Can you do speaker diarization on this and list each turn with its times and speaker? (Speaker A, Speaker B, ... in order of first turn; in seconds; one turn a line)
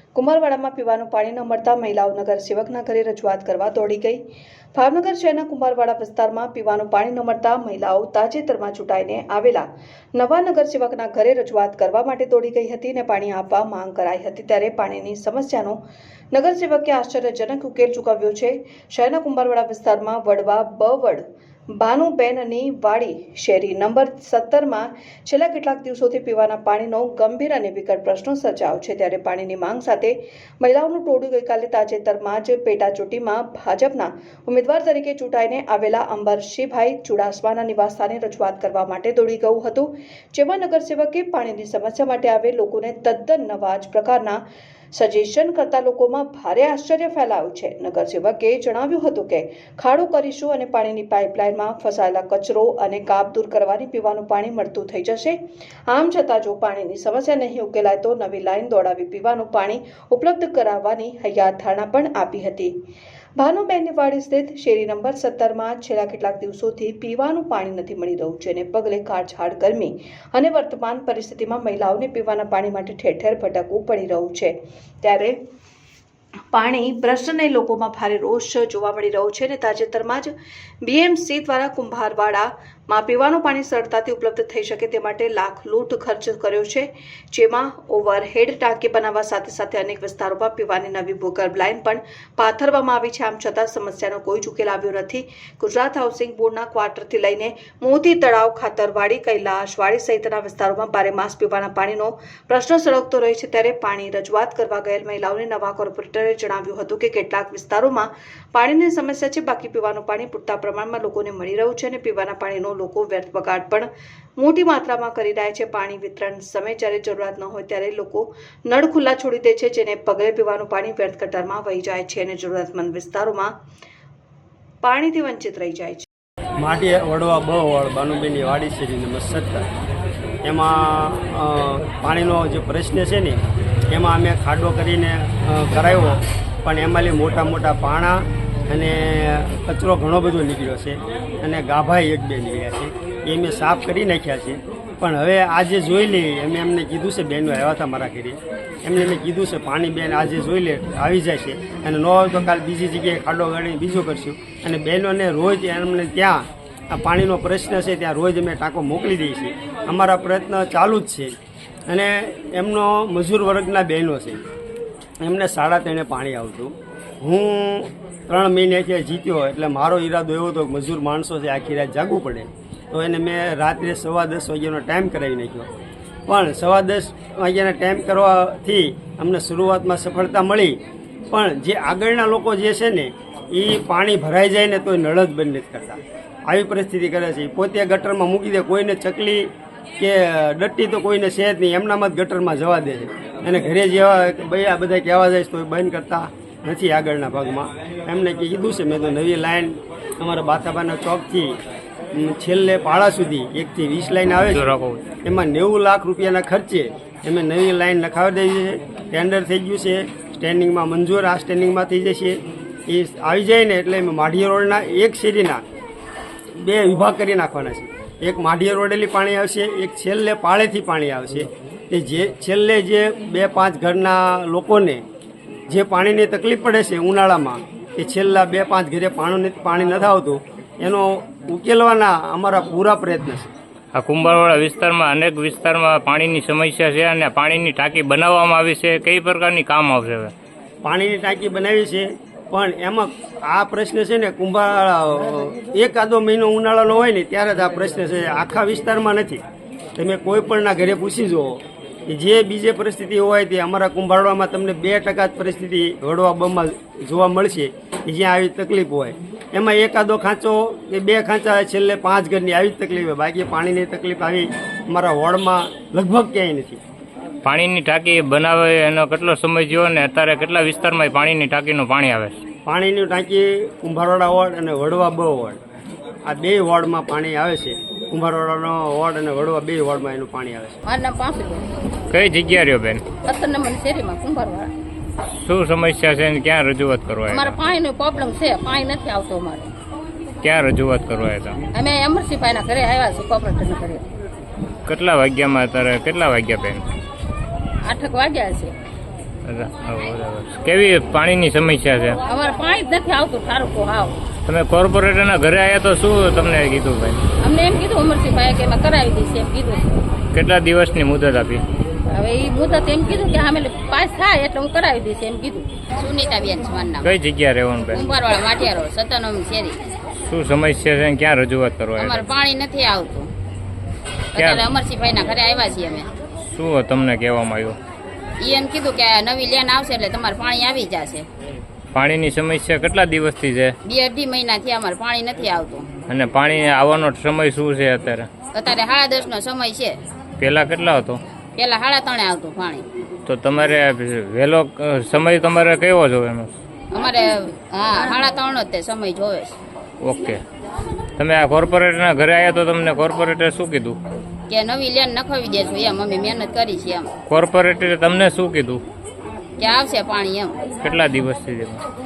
Speaker A: 0.1-4.2
Speaker A: 4.7-15.8
Speaker A: 16.3-21.2
Speaker A: 21.8-44.4
Speaker A: 44.9-62.7
Speaker A: 63.4-75.4
Speaker A: 76.5-80.3
Speaker A: 80.8-123.5
Speaker A: 124.8-126.0
Speaker B: 126.6-129.7
Speaker B: 130.4-133.4
Speaker B: 133.9-161.3
Speaker B: 161.9-164.4
Speaker B: 165.2-175.7
Speaker B: 176.3-180.8
Speaker B: 181.3-201.6
Speaker B: 202.1-204.7
Speaker C: 204.5-205.0
Speaker B: 205.2-215.6
Speaker B: 216.6-225.0
Speaker B: 225.7-233.5
Speaker C: 233.9-240.3
Speaker B: 240.8-249.4
Speaker B: 249.9-266.8
Speaker C: 267.4-272.4
Speaker B: 272.6-275.6
Speaker B: 276.2-280.8
Speaker D: 280.8-281.7
Speaker C: 282.1-283.1
Speaker D: 283.2-284.7
Speaker C: 285.4-287.6
Speaker D: 287.3-289.7
Speaker C: 290.4-291.6
Speaker D: 291.7-294.1
Speaker C: 294.9-296.8
Speaker D: 297.8-298.7
Speaker C: 299.4-302.2
Speaker D: 302.2-304.2
Speaker C: 304.4-307.2
Speaker D: 307.4-310.0
Speaker C: 310.3-311.6
Speaker D: 312.1-315.7
Speaker E: 316.0-317.1
Speaker C: 317.0-318.0
Speaker E: 317.9-319.8
Speaker C: 320.2-322.2
Speaker E: 322.0-323.3
Speaker E: 324.3-326.1
Speaker C: 324.4-324.6
Speaker C: 326.4-327.8
Speaker E: 328.4-331.2
Speaker C: 331.9-333.7
Speaker E: 333.9-335.9
Speaker C: 336.1-338.3
Speaker E: 338.5-340.0
Speaker C: 340.4-341.2
Speaker E: 341.6-342.8
Speaker C: 343.2-346.6
Speaker E: 346.9-349.6
Speaker C: 350.0-350.4
Speaker C: 351.2-354.0
Speaker E: 354.5-357.1
Speaker C: 357.3-358.8
Speaker E: 359.6-360.6
Speaker C: 360.8-361.8